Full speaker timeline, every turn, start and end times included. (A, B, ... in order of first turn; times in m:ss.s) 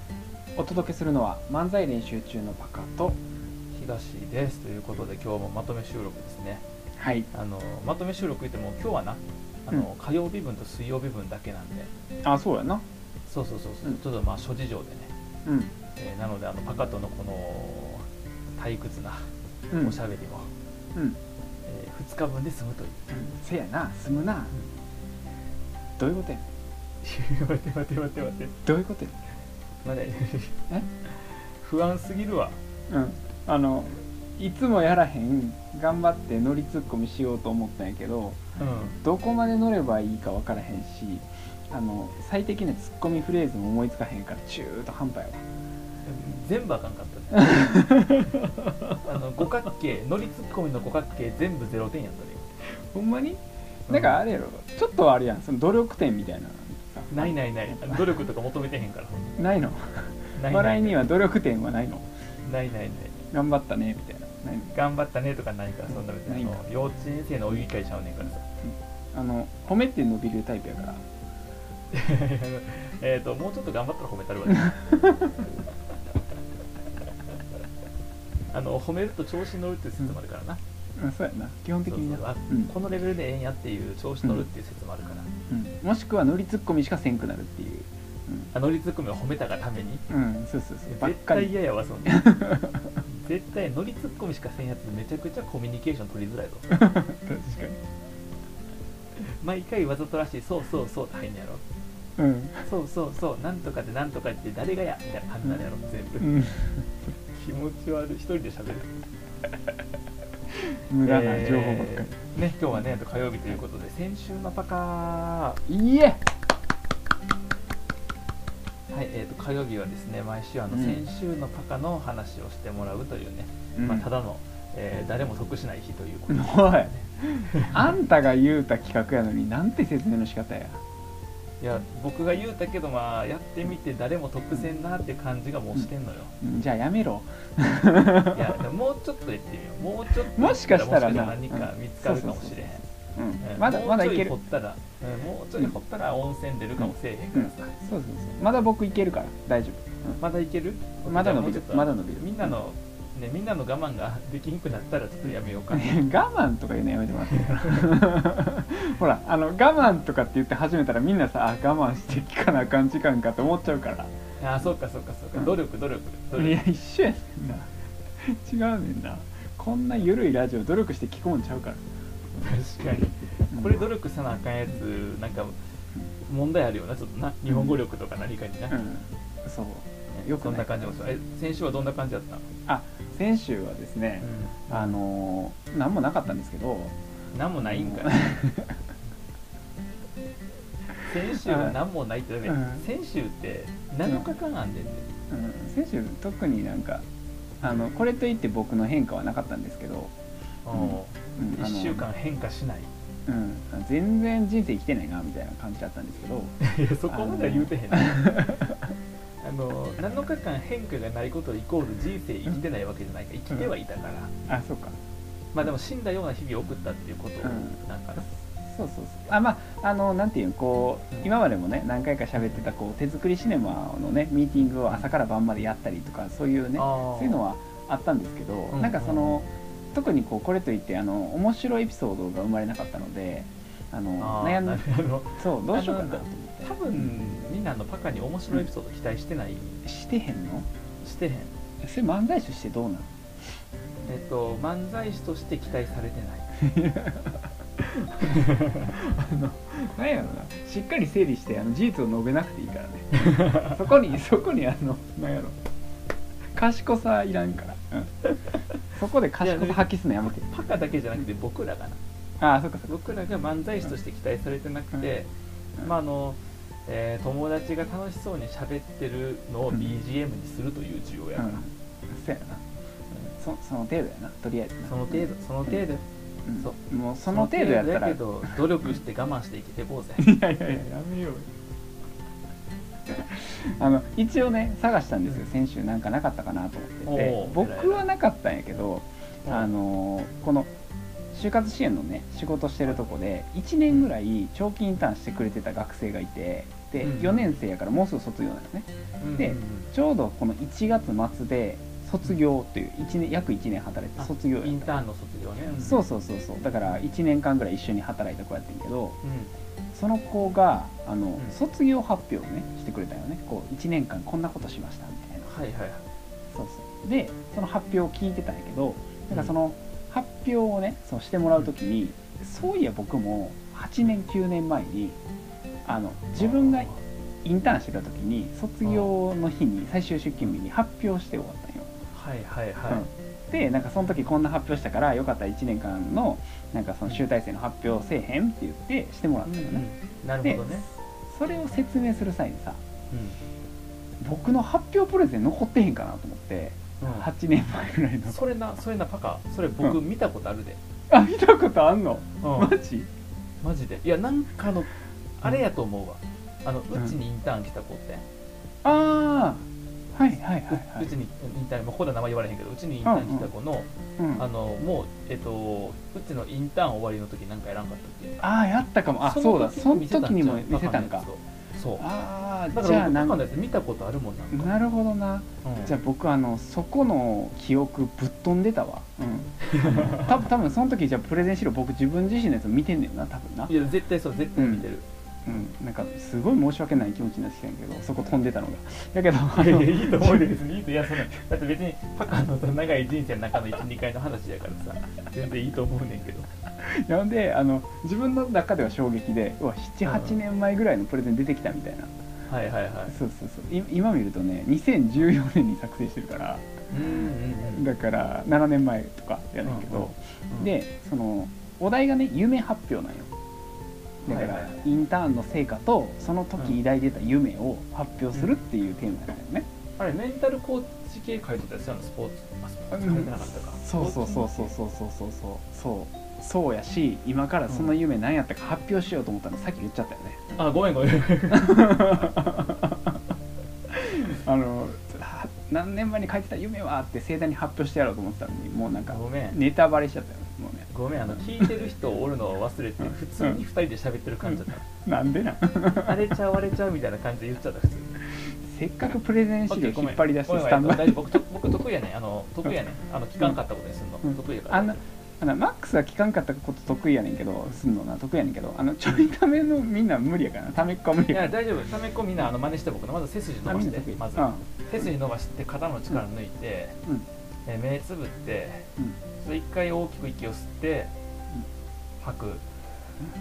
0:00.6-0:03.2 A
0:03.7-0:06.6 B
0:07.0-0:07.3 A
0:07.3-0:11.9 B
0:12.2-0:12.8 A
0:13.3-0:15.1 B
0:15.4-0:15.7 A
0:16.0-0:18.0 B
0:18.6-0:19.3 B
0:19.7-0:20.0 A
0:19.8-0:20.5 B
0:21.7-0:23.0 B
0:23.1-0:24.5 A
0:26.0-0:26.5 A
0:27.0-0:28.5 B
0:28.7-0:29.1 A
0:29.8-0:30.6 B
0:31.2-0:32.6 B
0:32.9-0:38.4 A
0:38.6-0:39.0 B
0:39.0-0:45.4 A
0:46.0-0:48.3 B
0:47.4-0:48.4 A
0:48.9-0:52.4 B
0:52.7-0:58.0 A
0:53.9-0:54.2 B
0:57.1-0:59.4 B
0:59.4-1:02.1 A
1:00.4-1:01.0 B
1:02.4-1:03.2 B
1:03.3-1:04.7 A
1:04.7-1:08.4 B
1:05.9-1:06.6 A
1:08.6-1:11.0 A
1:11.9-1:15.0 B
1:18.5-1:20.6 B
1:21.0-1:22.7 A
1:21.9-1:25.3 B
1:25.5-1:28.5 A
1:28.5-1:30.0 B
1:30.1-1:31.5 A
1:30.9-1:32.4 B
1:32.1-1:32.9 A
1:33.1-1:36.7 B
1:36.7-1:37.8 A
1:39.2-1:41.6 B
1:42.2-1:42.6 A
1:42.6-1:46.4 B
1:46.2-1:46.9 A
1:47.3-1:48.9 B
1:50.9-1:52.1 A
1:51.0-1:55.6 B
1:55.7-1:56.2 A
1:58.9-2:06.7 B
2:00.7-2:01.0 A
2:03.8-2:04.1 A
2:06.3-2:10.8 A
2:07.5-2:07.8 B
2:11.6-2:16.3 B
2:16.4-2:18.6 A
2:18.3-2:22.8 B
2:20.2-2:24.4 A
2:23.4-2:27.8 B
2:26.8-2:30.2 A
2:30.2-2:36.0 B
2:31.1-2:32.6 A
2:35.7-2:44.1 A
2:44.4-2:46.6 B
2:46.4-2:47.7 A
2:48.2-2:51.8 A
2:52.4-2:55.6 B
2:53.5-2:53.8 A
2:56.3-2:58.8 B
2:57.5-2:57.8 A
2:58.7-3:01.0 A
3:00.1-3:02.4 B
3:02.7-3:06.9 A
3:04.2-3:05.0 B
3:07.3-3:08.3 B
3:07.6-3:08.8 A
3:11.0-3:15.1 B
3:11.5-3:11.8 A
3:12.5-3:12.8 A
3:15.3-3:17.0 A
3:17.6-3:20.1 A
3:20.6-3:22.9 B
3:20.7-3:22.1 A
3:23.3-3:26.5 A
3:26.6-3:28.7 B
3:27.1-3:28.8 A
3:29.4-3:34.3 B
3:34.5-3:35.0 A
3:35.5-3:38.3 B
3:37.4-3:54.8 A
3:46.8-3:47.4 B
3:48.7-3:49.4 B
3:54.2-3:59.8 B
3:55.4-3:57.1 A
3:59.8-4:00.7 A
4:01.0-4:01.5 B
4:01.8-4:03.1 A
4:04.0-4:06.5 B
4:06.6-4:07.4 A
4:08.4-4:08.7 B
4:08.8-4:15.6 A
4:16.6-4:18.1 A
4:19.0-4:20.5 A
4:19.4-4:22.0 B
4:22.4-4:22.9 A
4:22.9-4:31.6 B
4:31.4-4:32.6 A
4:33.4-4:35.8 A
4:34.8-4:36.0 B
4:36.5-4:38.5 A
4:36.6-4:40.4 B
4:40.2-4:41.5 A
4:43.1-4:50.7 A
4:47.1-4:48.0 B
4:51.3-5:05.0 A
4:57.0-4:57.5 B
4:59.2-4:59.9 B
5:04.2-5:06.0 B
5:05.7-5:09.2 A
5:09.2-5:09.5 B
5:09.9-5:15.5 A
5:15.5-5:16.0 B
5:16.5-5:25.2 A
5:25.8-5:26.9 A
5:26.4-5:27.0 B
5:27.4-5:31.9 A
5:32.1-5:33.1 B
5:32.9-5:39.9 A
5:39.5-5:40.9 B
5:40.4-5:42.8 A
5:43.1-5:43.4 B
5:44.2-5:48.4 A
5:47.0-5:47.3 B
5:48.3-5:50.8 B
5:51.1-5:53.1 A
5:52.4-5:52.8 B
5:53.6-5:58.2 B
5:58.8-6:01.1 A
6:00.7-6:08.4 B
6:03.0-6:03.5 A
6:04.2-6:04.4 A
6:08.4-6:11.3 A
6:09.2-6:12.0 B
6:12.0-6:13.4 A
6:12.7-6:14.7 B
6:14.5-6:23.7 A
6:15.6-6:16.0 B
6:19.7-6:20.4 B
6:23.7-6:25.0 B
6:24.6-6:24.9 A
6:25.5-6:30.5 A
6:29.5-6:36.5 B
6:36.8-6:42.1 A
6:40.1-6:40.4 B
6:42.5-6:43.2 B
6:43.1-6:46.6 A
6:46.9-6:47.9 B
6:47.7-6:53.3 A
6:49.7-6:50.7 B
6:54.3-6:54.8 B
6:54.3-6:59.7 A
7:00.0-7:04.8 B
7:02.9-7:10.5 A
7:10.5-7:12.4 B
7:11.5-7:13.0 A
7:13.9-7:21.7 A
7:19.1-7:19.6 B
7:20.9-7:24.9 B
7:24.4-7:26.3 A
7:25.8-7:28.2 B
7:28.7-7:31.4 A
7:29.7-7:35.0 B
7:34.7-7:41.6 A
7:41.3-7:47.0 B
7:43.7-7:44.6 A
7:47.7-7:51.1 B
7:52.2-7:52.6 B